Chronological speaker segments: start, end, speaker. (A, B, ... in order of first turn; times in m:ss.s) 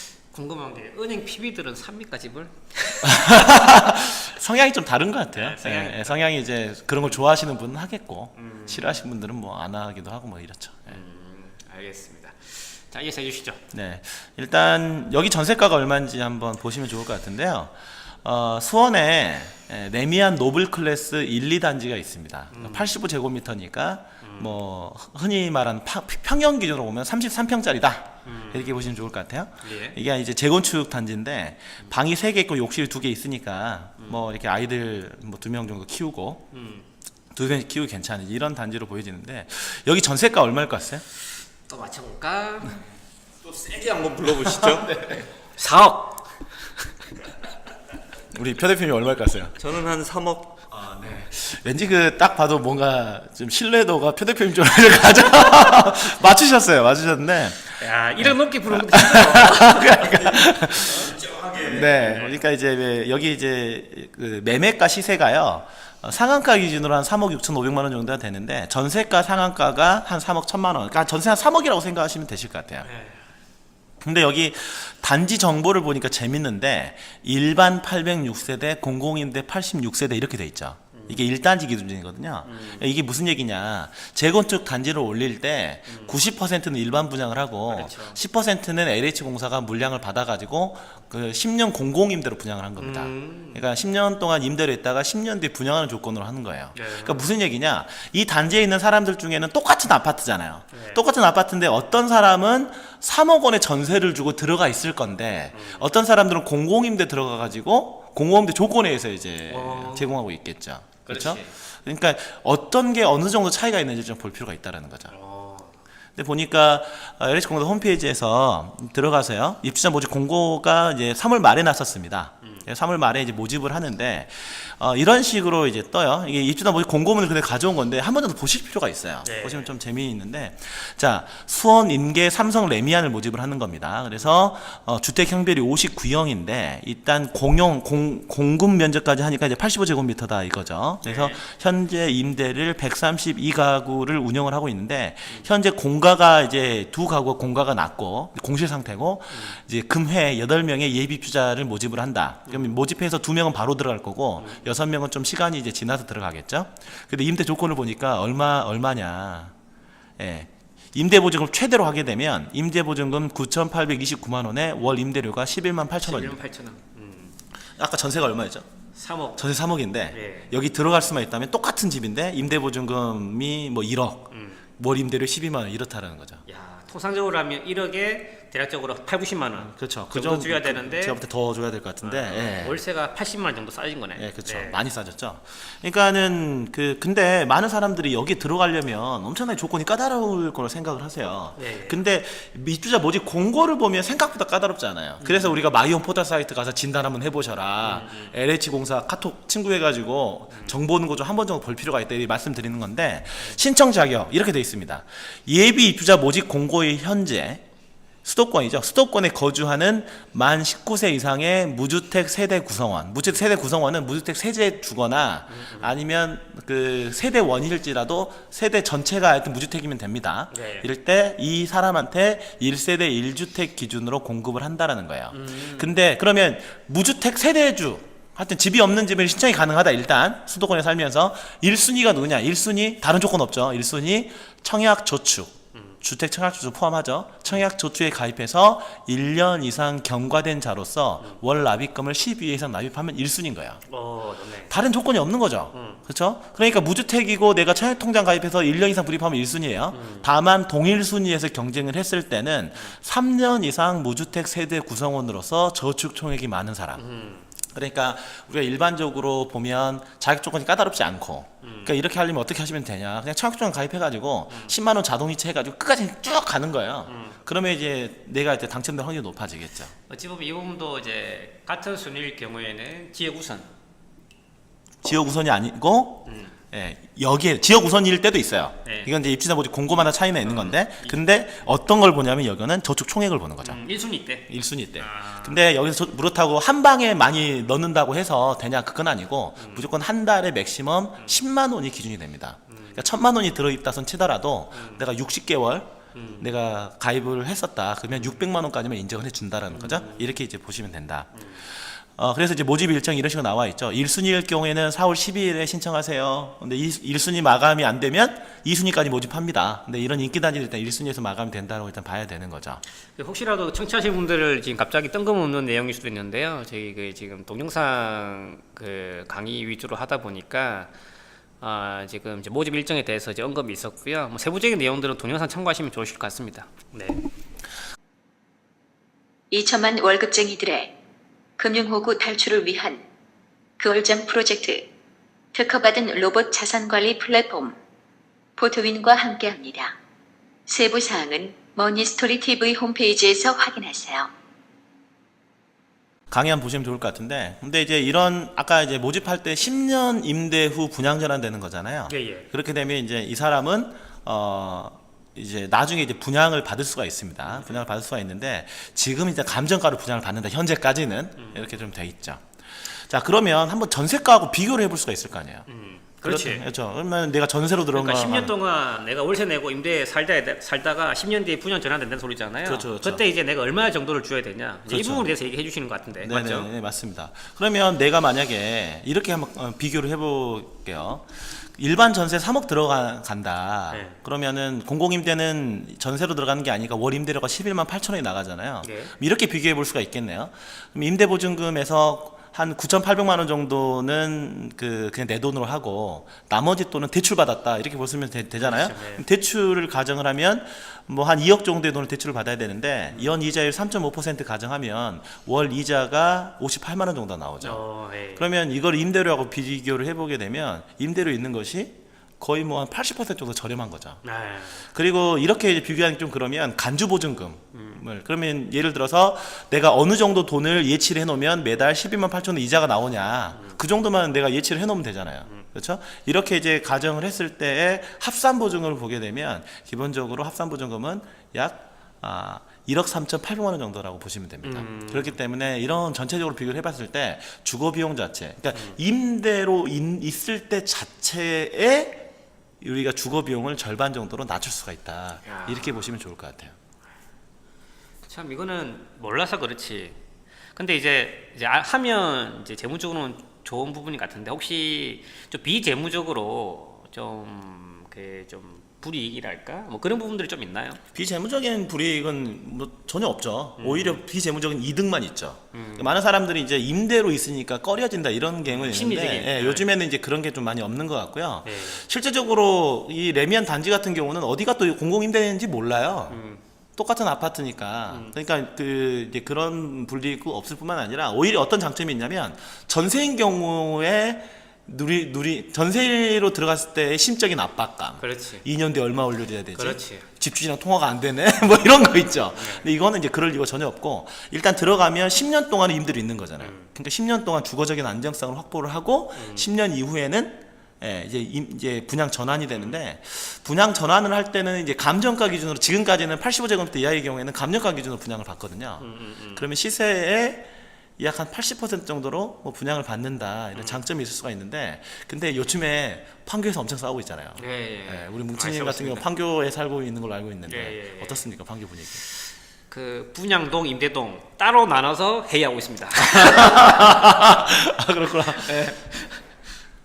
0:00.3-0:03.9 A
0:03.0-0:11.0 B
0:05.3-0:06.2 A
0:08.4-0:09.0 A
0:10.9-0:13.6 A
0:13.7-0:36.5 B
0:22.5-0:23.0 A
0:24.2-0:24.6 A
0:28.2-0:28.8 A
0:29.6-0:30.0 A
0:36.5-0:36.8 A
0:37.3-0:41.0 B
0:41.7-0:42.8 A
0:43.4-0:44.9 C
0:44.9-0:45.2 B
0:45.6-0:46.3 A
0:48.3-0:49.6 B
0:49.6-0:50.6 C
0:50.7-1:12.9 B
0:57.8-1:01.2 A
1:01.3-1:01.6 C
1:01.8-1:02.4 A
1:12.8-1:13.2 A
1:14.0-1:55.1 B
1:20.9-1:21.3 A
1:22.4-1:22.9 A
1:25.9-1:26.2 A
1:27.7-1:28.2 A
1:32.8-1:33.6 A
1:36.7-1:37.2 A
1:40.7-1:41.0 A
1:45.5-1:45.9 A
1:49.5-1:50.1 A
1:51.0-1:51.5 A
1:55.1-1:55.7 A
1:56.2-2:39.5 B
2:09.2-2:09.7 A
2:21.0-2:21.4 A
2:29.3-2:29.6 A
2:32.5-2:32.7 A
2:34.4-2:34.7 A
2:40.2-2:46.4 B
2:46.0-2:47.3 A
2:47.8-2:48.7 B
2:48.9-2:49.4 A
2:49.3-2:56.4 B
2:50.1-2:50.5 A
2:54.3-2:54.6 A
2:56.4-3:01.2 A
2:59.5-3:02.8 B
3:02.0-3:04.8 A
3:04.2-3:27.6 B
3:11.6-3:12.0 A
3:15.2-3:15.6 A
3:17.8-3:18.3 A
3:20.5-3:20.8 A
3:28.2-4:03.8 B
3:35.5-3:36.0 A
3:40.5-3:40.9 A
3:45.3-3:46.0 A
4:03.9-4:04.7 A
4:04.7-4:17.0 B
4:05.7-4:06.0 A
4:09.9-4:10.3 A
4:17.0-4:17.5 A
4:17.7-4:29.9 B
4:21.6-4:22.0 A
4:24.5-4:24.7 A
4:27.0-4:27.4 A
4:30.1-4:33.7 A
4:35.0-4:43.8 B
4:36.2-4:36.5 A
4:38.8-4:39.1 A
4:40.4-4:41.2 A
4:43.6-4:45.6 A
4:44.5-5:12.8 B
4:49.6-4:49.9 A
4:52.7-4:53.0 A
4:54.7-4:55.0 A
4:56.1-4:56.5 A
4:58.1-4:58.4 A
4:59.7-5:00.3 A
5:01.4-5:01.6 A
5:13.2-5:20.9 A
5:21.6-5:27.2 A
5:29.5-5:30.9 D
5:31.6-5:33.0 D
5:33.8-5:34.9 D
5:35.5-5:37.8 D
5:38.6-5:39.9 D
5:40.7-5:44.3 D
5:46.3-6:05.7 B
5:52.1-5:52.5 A
5:57.5-5:57.8 A
6:01.4-6:01.7 A
6:05.7-6:06.7 A
6:06.2-6:08.5 B
6:07.9-6:16.7 A
6:12.6-6:13.2 B
6:14.9-6:15.3 B
6:16.2-6:54.2 B
6:23.9-6:24.2 A
6:28.8-6:29.1 A
6:38.6-6:39.2 A
6:47.6-6:48.4 A
6:54.2-6:54.8 A
6:54.8-7:22.3 B
6:57.7-6:58.0 A
7:14.6-7:15.4 A
7:22.8-7:26.7 B
7:25.4-7:26.1 A
7:28.3-7:30.2 A
7:30.7-7:41.0 A
7:41.1-7:56.4 B
7:43.8-7:44.2 A
7:45.7-7:46.1 A
7:48.6-7:49.9 A
7:51.6-7:52.0 A
7:56.3-7:56.6 A
7:57.0-8:42.2 B
7:58.1-7:58.3 A
8:08.2-8:08.6 A
8:09.7-8:10.2 A
8:12.6-8:12.9 A
8:16.6-8:16.9 A
8:19.3-8:19.7 A
8:22.7-8:23.0 A
8:29.0-8:29.6 A
8:37.6-8:39.2 A
8:40.6-8:41.4 A
8:42.9-8:47.4 A
8:46.2-8:49.0 B
8:48.6-8:49.4 A